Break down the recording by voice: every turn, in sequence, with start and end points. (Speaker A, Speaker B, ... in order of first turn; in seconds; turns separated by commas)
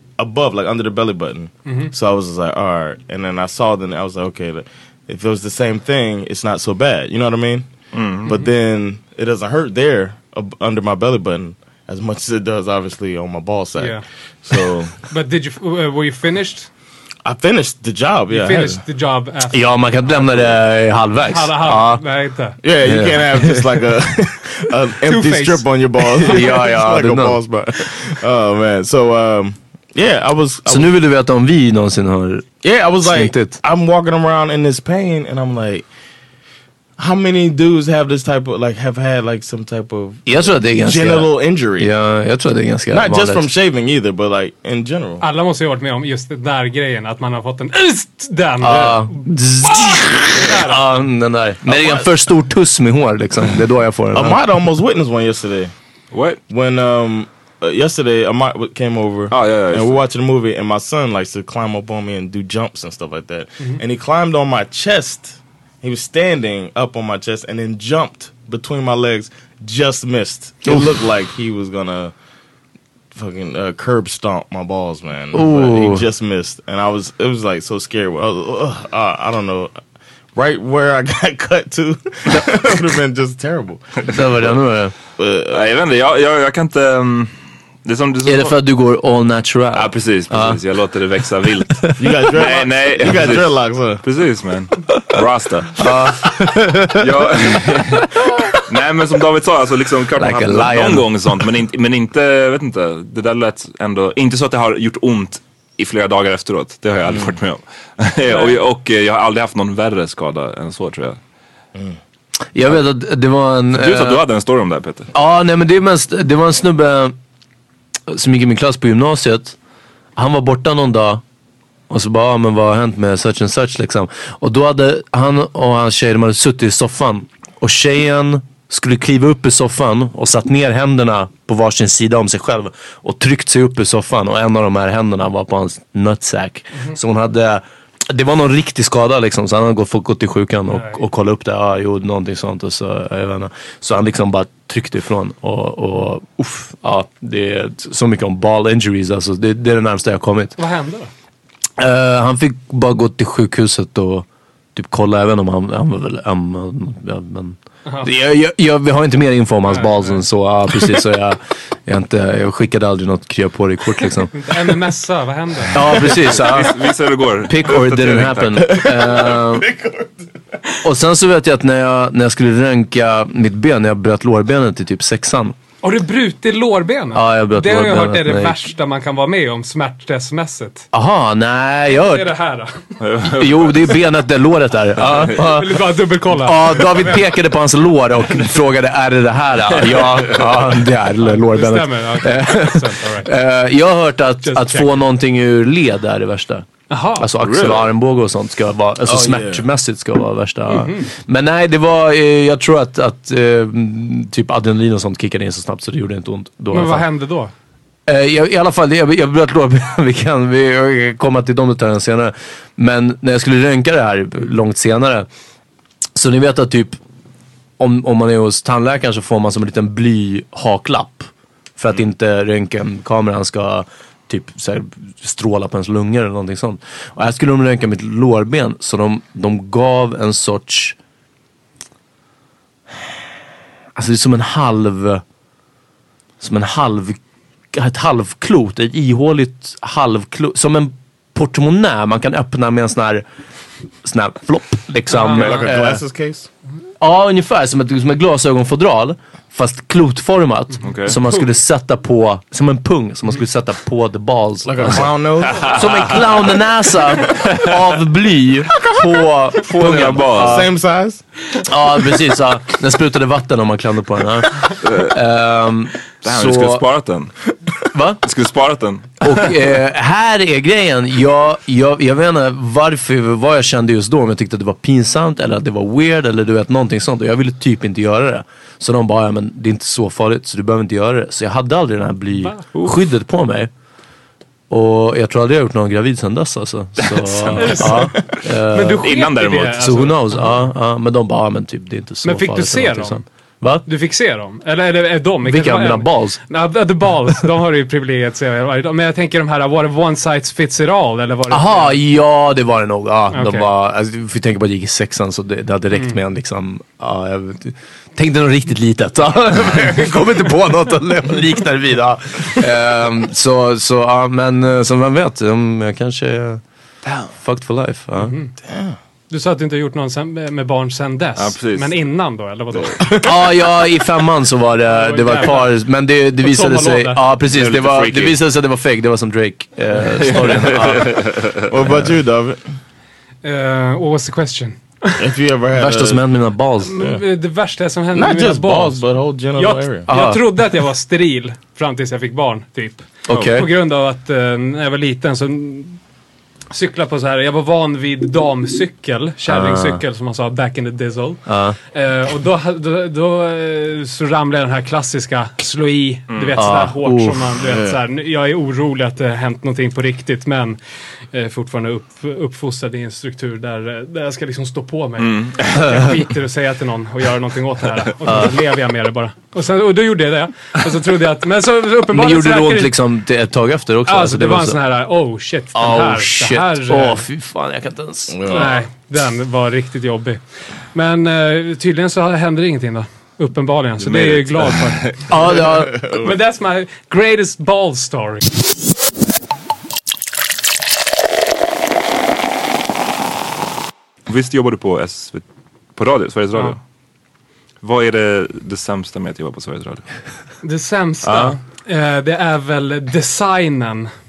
Speaker A: 0.2-7.7, Speaker B: 1.7-1.9, Speaker C: 7.9-8.3, Speaker A: 8.2-15.0, Speaker B: 13.8-14.0, Speaker B: 15.1-16.7, Speaker A: 17.2-18.8, Speaker B: 18.3-20.5, Speaker D: 19.5-22.0, Speaker B: 21.3-22.6, Speaker A: 22.6-30.9, Speaker D: 22.8-23.9, Speaker B: 25.1-26.6, Speaker D: 26.2-27.4, Speaker D: 30.7-32.5, Speaker A: 32.6-35.9, Speaker D: 33.0-33.6, Speaker A: 37.0-41.9, Speaker D: 40.3-43.5, Speaker A: 42.9-45.2, Speaker B: 45.2-49.2, Speaker D: 48.6-54.4, Speaker B: 50.3-50.8, Speaker A: 51.7-52.1, Speaker A: 54.1-55.7, Speaker C: 56.1-56.4, Speaker A: 56.5-72.1, Speaker C: 59.3-60.0, Speaker D: 70.7-71.0, Speaker A: 73.1-79.7, Speaker D: 75.3-76.0, Speaker A: 80.3-83.9, Speaker D: 84.1-84.9, Speaker A: 85.2-85.7, Speaker C: 85.5-87.3, Speaker C: 87.8-88.6, Speaker D: 88.2-90.6, Speaker C: 89.8-95.9, Speaker A: 92.0-94.0, Speaker D: 95.8-97.9, Speaker C: 97.0-111.2, Speaker D: 100.2-101.4, Speaker A: 107.1-107.4, Speaker B: 108.3-108.6, Speaker D: 112.5-114.2, Speaker C: 113.7-115.1, Speaker D: 115.1-117.2, Speaker D: 118.1-119.6, Speaker D: 120.2-121.2, Speaker D: 121.9-150.6, Speaker B: 140.7-141.0, Speaker B: 150.6-151.1, Speaker D: 151.8-164.3, Speaker B: 159.7-160.2, Speaker B: 164.3-166.0, Speaker D: 165.7-166.8, Speaker C: 166.2-168.8, Speaker D: 167.4-169.7, Speaker A: 168.6-170.3, Speaker D: 170.8-175.6, Speaker B: 175.8-180.9, Speaker D: 177.1-178.6, Speaker D: 180.9-182.3, Speaker B: 181.9-182.8, Speaker C: 183.0-183.9, Speaker D: 183.3-207.1, Speaker B: 185.3-187.3, Speaker C: 189.9-190.4, Speaker B: 191.2-193.3, Speaker B: 194.4-195.0, Speaker B: 196.9-197.3, Speaker C: 197.4-197.8, Speaker A: 199.1-199.7, Speaker B: 200.7-201.1, Speaker B: 206.7-207.5, Speaker D: 208.1-215.3, Speaker D: 216.2-217.0, Speaker D: 217.8-231.0, Speaker D: 234.0-235.2, Speaker D: 236.4-237.2, Speaker D: 237.7-243.2, Speaker D: 244.0-246.0, Speaker B: 245.1-245.7, Speaker A: 245.3-246.5, Speaker D: 247.0-260.7, Speaker C: 250.8-251.2, Speaker A: 254.7-255.8, Speaker C: 255.5-256.0, Speaker C: 259.8-260.6, Speaker A: 260.1-261.2, Speaker D: 261.7-266.9, Speaker C: 264.8-265.1, Speaker C: 266.2-267.3, Speaker D: 267.9-268.2, Speaker C: 268.2-269.5, Speaker D: 269.2-283.7, Speaker B: 282.4-282.9, Speaker D: 284.7-289.1, Speaker C: 287.0-287.8, Speaker B: 287.6-288.2, Speaker B: 288.7-290.5, Speaker C: 289.0-289.9, Speaker D: 289.6-293.9, Speaker B: 292.2-293.2, Speaker B: 293.9-302.0, Speaker D: 295.4-296.4, Speaker D: 301.5-316.6, Speaker B: 303.3-303.7, Speaker D: 317.4-318.4, Speaker B: 318.2-318.5, Speaker A: 318.6-319.0, Speaker B: 319.3-323.1, Speaker C: 321.4-321.9, Speaker A: 323.0-323.3, Speaker D: 323.2-331.2, Speaker B: 324.9-325.8, Speaker B: 326.4-327.2, Speaker C: 327.5-328.4, Speaker C: 330.0-331.7, Speaker A: 331.7-332.6, Speaker B: 333.4-335.2, Speaker A: 335.2-336.2, Speaker D: 335.7-337.1, Speaker B: 336.8-339.0, Speaker A: 338.1-340.1, Speaker B: 339.6-346.0, Speaker D: 340.1-340.4, Speaker D: 343.3-343.7, Speaker B: 346.7-360.8, Speaker D: 349.5-350.0, Speaker D: 351.5-351.8, Speaker C: 356.3-356.6, Speaker D: 356.6-357.5, Speaker A: 357.6-358.0, Speaker B: 361.3-372.9, Speaker C: 365.2-366.0, Speaker D: 368.3-368.5, Speaker D: 372.1-374.8, Speaker B: 374.1-377.2, Speaker D: 375.7-378.7, Speaker A: 378.3-378.8, Speaker B: 378.5-380.4, Speaker B: 380.9-385.1, Speaker C: 384.0-385.2, Speaker D: 385.3-386.0, Speaker A: 385.7-386.3, Speaker B: 386.2-388.5, Speaker C: 394.3-395.4, Speaker C: 396.0-396.8, Speaker C: 397.8-400.1, Speaker B: 400.6-404.1, Speaker C: 401.2-401.6